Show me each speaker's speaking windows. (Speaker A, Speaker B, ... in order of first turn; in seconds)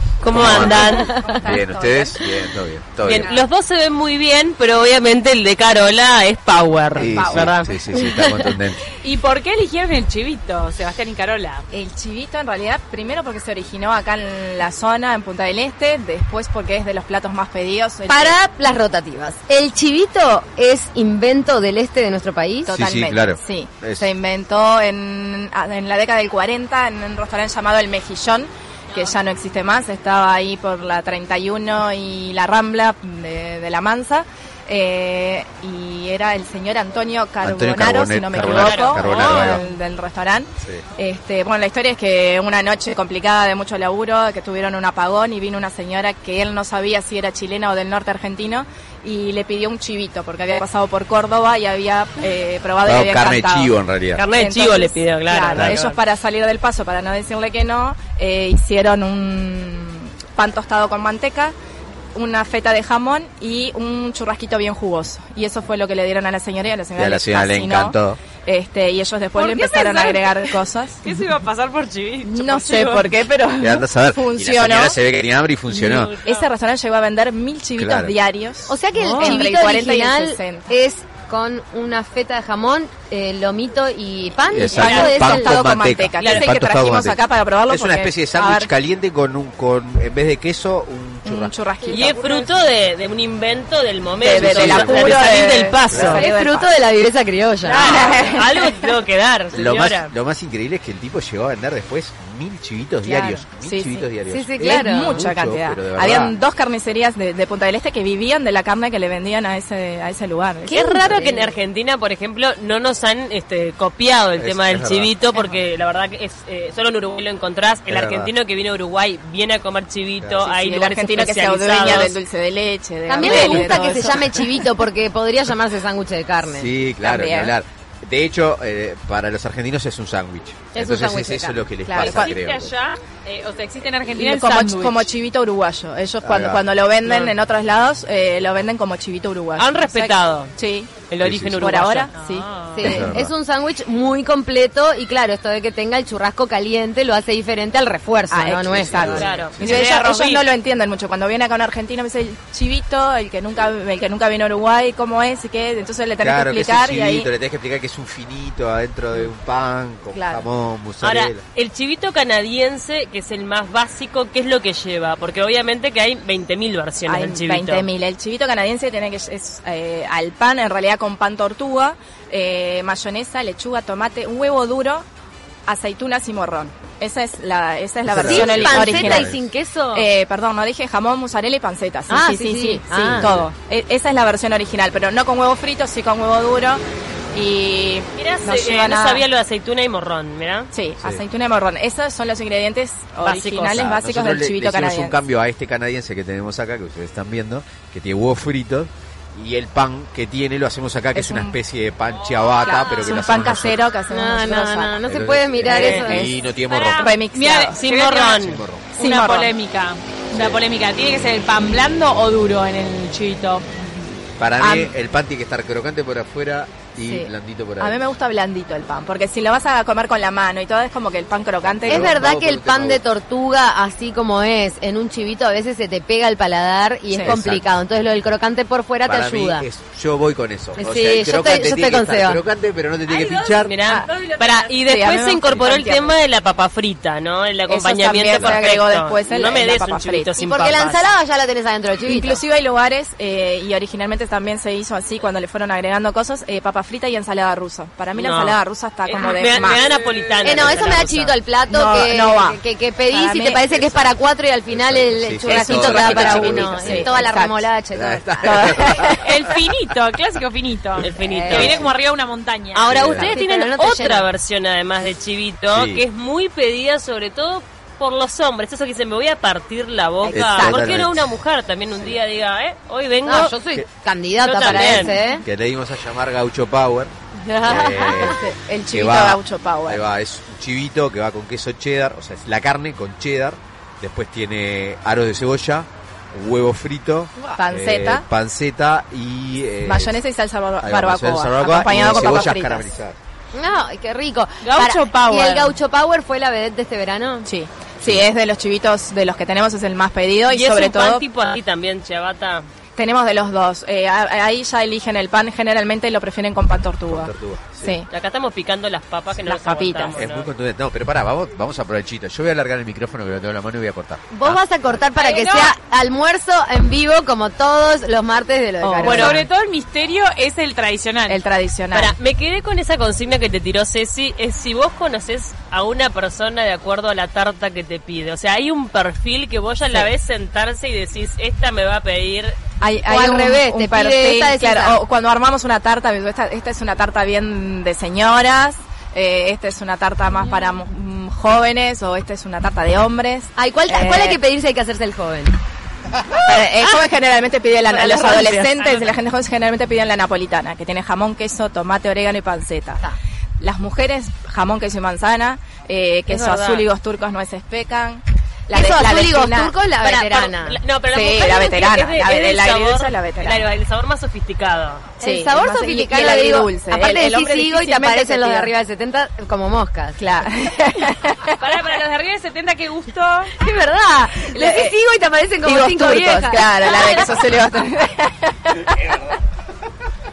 Speaker A: 0.2-1.1, 3.0-7.8, 38.4-39.6, 54.1-55.9, 75.7-76.5, 84.8-85.2, 86.2-86.5, 91.9-96.3, 97.7-100.1, 110.7-122.2, 123.2-123.5, 139.6-140.5, 141.1-142.1, 149.1-150.4, 161.0-167.9, 188.2-190.7, 193.2-193.9, 207.7-208.6, 233.6-241.1, 248.2-251.4, 261.0-261.8, 262.7-273.5, 274.4-275.2, 300.5-302.7, 308.1-310.5, 319.0-319.3, 321.9-332.6, 347.9-349.0, 356.3-356.9, 360.0-365.1
Speaker B: 0.3-3.4, 7.0-8.8, 22.7-24.1, 37.4-39.6, 52.8-54.2, 55.5-55.8, 67.0-68.2, 73.6-76.1, 77.8-78.2, 84.5-91.5, 94.2-95.4, 95.9-96.2, 99.5-106.3, 114.4-115.1, 117.9-118.3, 123.3-123.7, 126.5-132.7, 136.2-136.6, 141.2-141.8, 142.8-143.3, 148.7-149.9, 156.2-161.4, 178.1-179.4, 183.1-183.5, 193.7-203.8, 205.1-207.1, 208.4-208.9, 210.3-210.6, 214.4-218.0, 221.6-223.0, 227.2-227.7, 229.1-233.7, 238.3-238.6, 253.8-254.1, 254.7-257.4, 257.9-259.5, 262.9-263.4, 265.7-266.1, 270.3-271.3, 274.6-277.1, 277.6-290.2, 290.8-293.2, 307.1-308.0, 310.2-314.6
Speaker C: 0.3-2.3, 7.0-7.5, 11.7-18.4, 22.7-53.7, 54.3-61.5, 62.1-71.0, 72.2-75.0, 76.2-80.7, 84.7-88.7, 91.2-92.6, 94.2-96.7, 97.7-98.9, 103.0-104.1, 104.6-111.3, 120.4-124.4, 127.0-127.5, 131.9-132.4, 134.1-140.9, 141.6-143.2, 148.3-157.3, 160.1-160.5, 167.1-175.1, 175.7-179.3, 179.9-186.8, 187.3-189.2, 190.7-195.2, 201.1-201.6, 202.6-205.0, 205.6-206.4, 207.0-207.8, 209.0-209.5, 214.6-214.9, 217.0-222.2, 227.1-227.4, 233.8-236.2, 237.7-240.3, 242.0-249.9, 251.7-252.6, 253.1-253.8, 255.4-257.6, 258.4-259.3, 270.2-270.9, 278.0-280.0, 287.6-288.2, 289.8-292.9, 297.5-301.2, 303.0-308.1, 309.4-310.2, 318.8-319.4, 321.3-322.1, 332.8-344.4, 346.3-353.0, 353.6-359.8, 361.1-363.6, 365.2-368.7, 370.2-371.6, 374.5-375.0, 375.6-379.2
Speaker D: 0.5-1.4, 8.0-8.3, 18.1-22.8, 78.7-85.5, 96.1-98.1, 104.3-105.3, 110.7-111.5, 123.1-126.7, 130.7-131.7, 142.7-149.3, 178.2-180.1, 182.1-183.3, 204.1-206.3, 221.9-229.7, 230.8-232.4, 240.4-242.4, 250.4-259.0, 261.2-261.9, 263.2-264.3, 273.2-275.4, 277.4-278.4, 293.5-297.5, 314.3-319.4, 333.1-335.0, 343.6-345.6, 358.7-360.8, 365.2-370.2, 373.6-377.3
Speaker E: 9.0-11.7, 69.3-73.1, 79.0-79.4, 132.0-135.1, 142.1-142.8, 206.7-213.7, 233.1-234.6, 249.9-250.4, 259.2-262.9, 294.6-295.8, 315.1-315.8, 319.0-321.4, 371.6-373.5